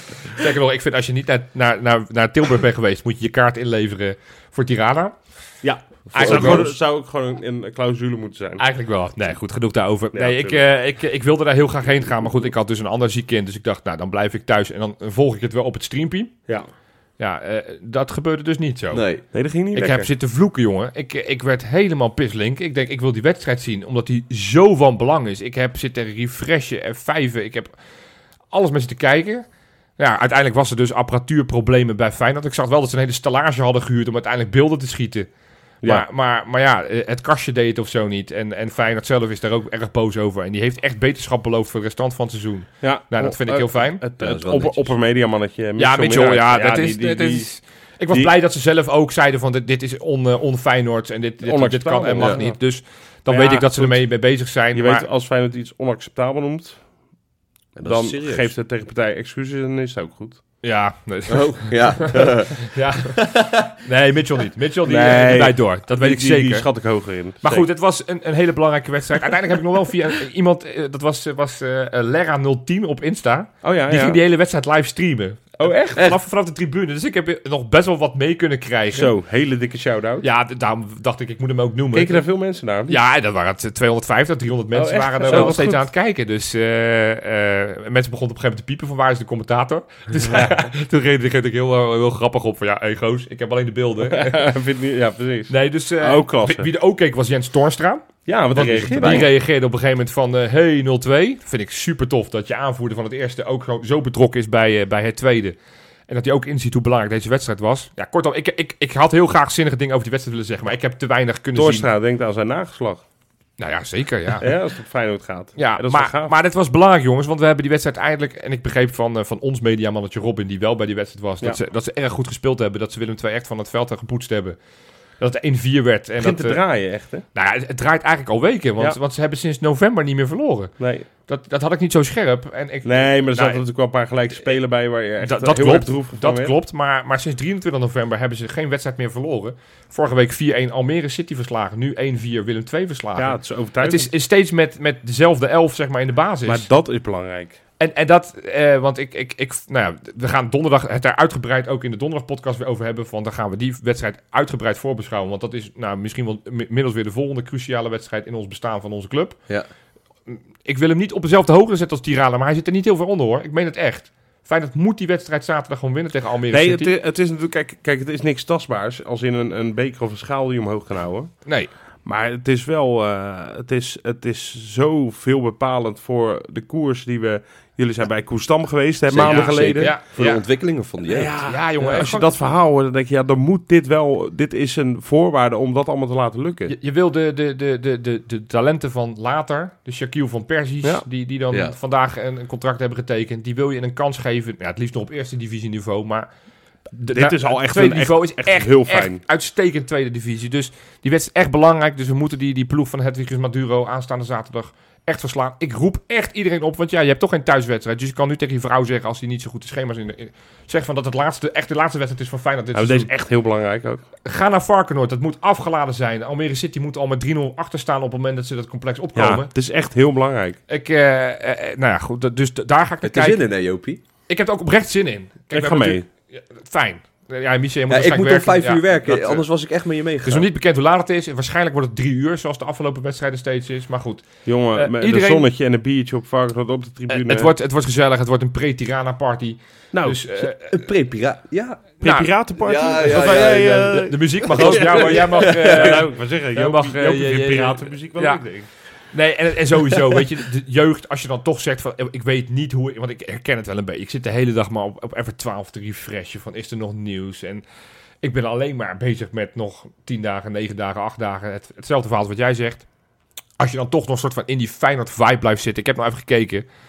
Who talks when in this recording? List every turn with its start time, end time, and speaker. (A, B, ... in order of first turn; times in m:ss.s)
0:00.2-0:05.5 A
0:05.6-0:08.6 B
0:06.1-0:06.8 A
0:06.2-0:06.7 C
0:08.6-0:16.4 A
0:10.1-0:10.6 B
0:17.2-0:19.1 A
0:18.9-0:19.2 C
0:19.3-0:20.1 B
0:19.7-0:27.8 A
0:28.5-0:29.5 A
0:30.0-0:35.3 A
0:35.8-0:44.0 A
0:42.8-0:48.3 B
0:44.2-0:44.9 C
0:45.8-0:55.1 A
0:51.4-0:52.6 B
0:53.3-0:56.9 B
0:57.8-0:58.5 C
0:57.8-1:00.5 B
1:00.6-1:06.7 A
1:01.3-1:03.7 C
1:04.9-1:07.7 B
1:07.4-1:19.1 A
1:13.6-1:14.2 B
1:15.6-1:16.2 B
1:18.9-1:20.3 B
1:20.2-1:22.2 A
1:21.9-1:23.0 B
1:22.9-1:34.5 A
1:24.7-1:25.8 B
1:34.1-1:36.7 B
1:35.5-1:45.6 A
1:38.3-1:39.3 B
1:39.0-1:39.3 C
1:46.1-1:51.9 A
1:51.6-1:53.0 B
1:53.6-1:54.5 A
1:54.4-1:56.3 B
1:55.6-2:04.6 A
2:05.2-2:06.6 A
2:06.2-2:07.3 B
2:07.3-2:13.6 A
2:10.8-2:11.1 B
2:12.8-2:16.5 B
2:15.2-2:26.7 A
2:23.2-2:24.1 B
2:26.5-2:27.6 B
2:27.8-2:39.4 A
2:40.3-2:46.9 A
2:46.5-3:00.0 B
2:51.4-2:51.7 A
2:59.1-3:02.1 C
2:59.2-3:00.5 A
3:01.0-3:06.8 B
3:01.5-3:02.4 A
3:06.7-3:16.3 A
3:17.0-3:19.2 B
3:17.1-3:33.1 A
3:32.7-3:34.0 B
3:34.2-3:39.5 A
3:39.2-3:40.6 B
3:40.7-3:43.4 A
3:43.0-3:44.0 C
3:44.3-3:49.5 A
3:45.5-3:46.0 B
3:47.9-3:50.5 C
3:50.2-3:55.5 A
3:54.4-3:57.5 B
3:57.1-4:00.9 A
3:59.9-4:00.2 B
4:00.4-4:02.0 C
4:02.0-4:08.7 B
4:02.0-4:02.3 A
4:02.6-4:06.1 C
4:03.1-4:17.6 A
4:18.2-4:22.9 A
4:23.6-4:26.7 A